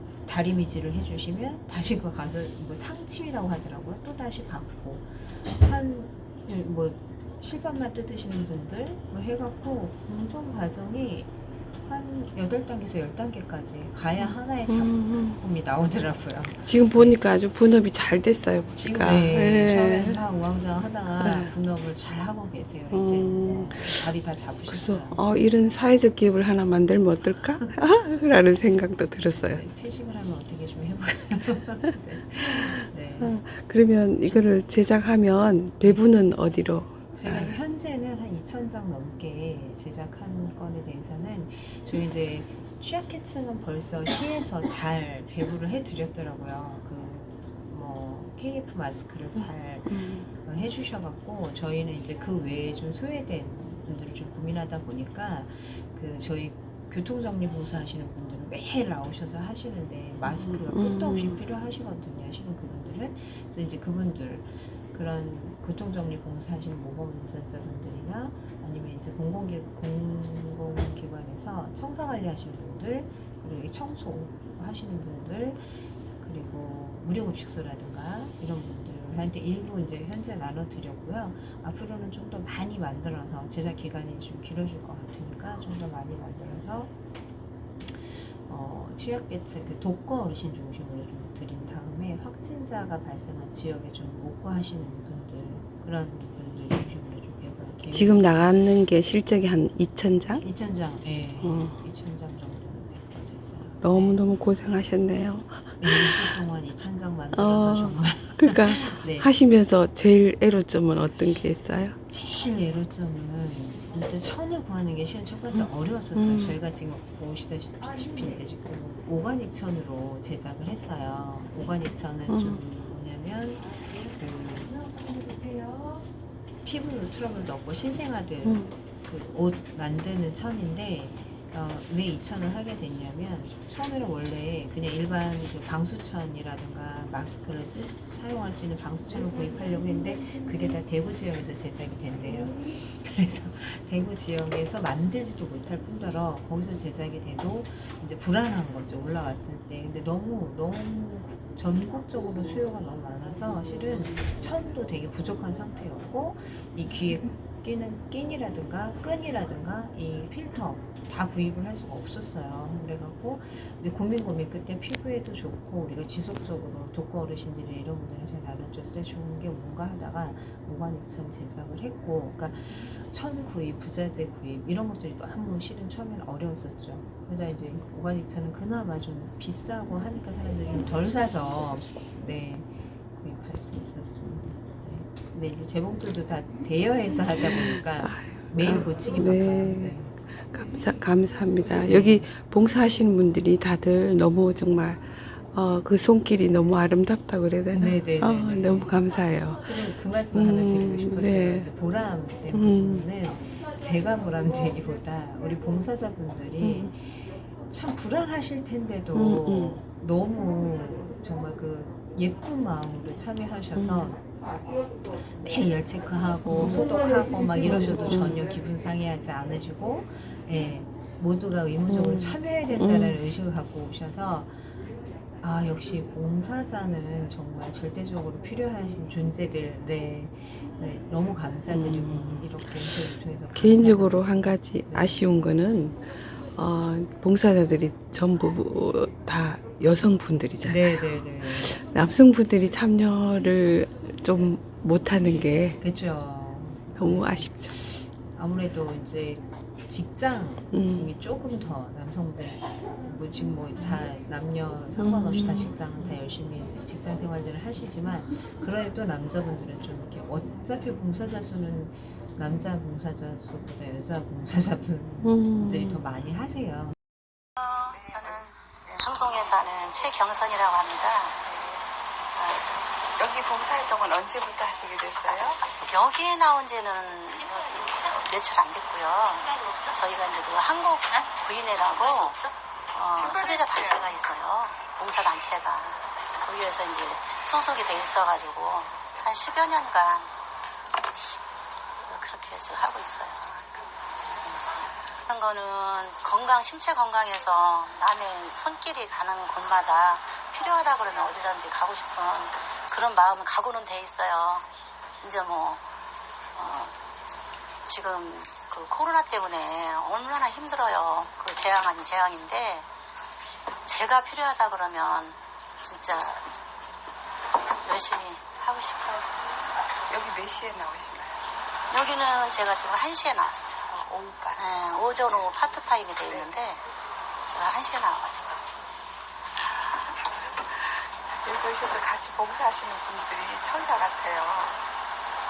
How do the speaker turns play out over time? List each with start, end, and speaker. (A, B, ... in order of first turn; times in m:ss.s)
0:00.2-0:11.3 A
0:11.8-0:17.2 A
0:14.7-0:15.4 B
0:16.7-0:20.2 B
0:18.8-0:25.2 A
0:21.2-0:21.5 B
0:22.9-0:24.1 B
0:24.7-0:29.6 B
0:29.4-0:33.4 A
0:33.2-0:37.5 B
0:34.2-0:34.5 A
0:37.2-1:26.9 A
0:49.9-0:50.3 B
1:00.5-1:01.4 B
1:27.9-1:38.5 A
1:37.9-1:40.4 B
1:40.4-1:44.2 A
1:41.4-1:41.8 B
1:43.8-1:46.4 B
1:45.8-1:49.3 A
1:47.3-1:52.0 B
1:52.1-2:06.0 A
1:56.2-1:56.6 B
2:02.3-2:02.6 B
2:06.6-3:10.2 A
2:08.4-2:08.7 B
3:07.6-3:19.8 B
3:11.8-3:12.2 A
3:17.7-3:19.0 A
3:19.6-3:55.5 A
3:20.3-3:21.7 B
3:22.5-3:23.0 B
3:26.6-3:26.9 B
3:29.2-3:29.8 B
3:33.8-3:34.2 B
3:36.5-3:36.9 B
3:37.7-3:38.5 B
3:41.9-3:43.2 B
3:51.7-3:52.5 B
3:53.5-4:01.0 B
4:00.6-4:01.9 A
4:01.5-4:05.8 B
4:05.8-4:27.0 A
4:07.0-4:07.8 B
4:10.7-4:11.1 B
4:15.0-4:15.7 B
4:25.2-4:26.0 B
4:27.6-4:31.4 C
4:31.6-4:31.8 D
4:32.4-4:32.6 C
4:33.2-4:35.6 D
4:35.9-4:50.3 C
4:52.0-4:53.9 C
4:54.4-5:04.7 C
5:05.2-5:05.8 C
5:06.5-5:07.0 C
5:07.8-5:12.9 C
5:13.9-5:16.4 C
5:17.8-5:19.4 C
5:20.1-5:21.4 D
5:21.9-5:23.8 C
5:23.9-5:25.5 D
5:24.6-5:26.8 C
5:27.5-5:28.6 C
5:31.4-5:34.8 D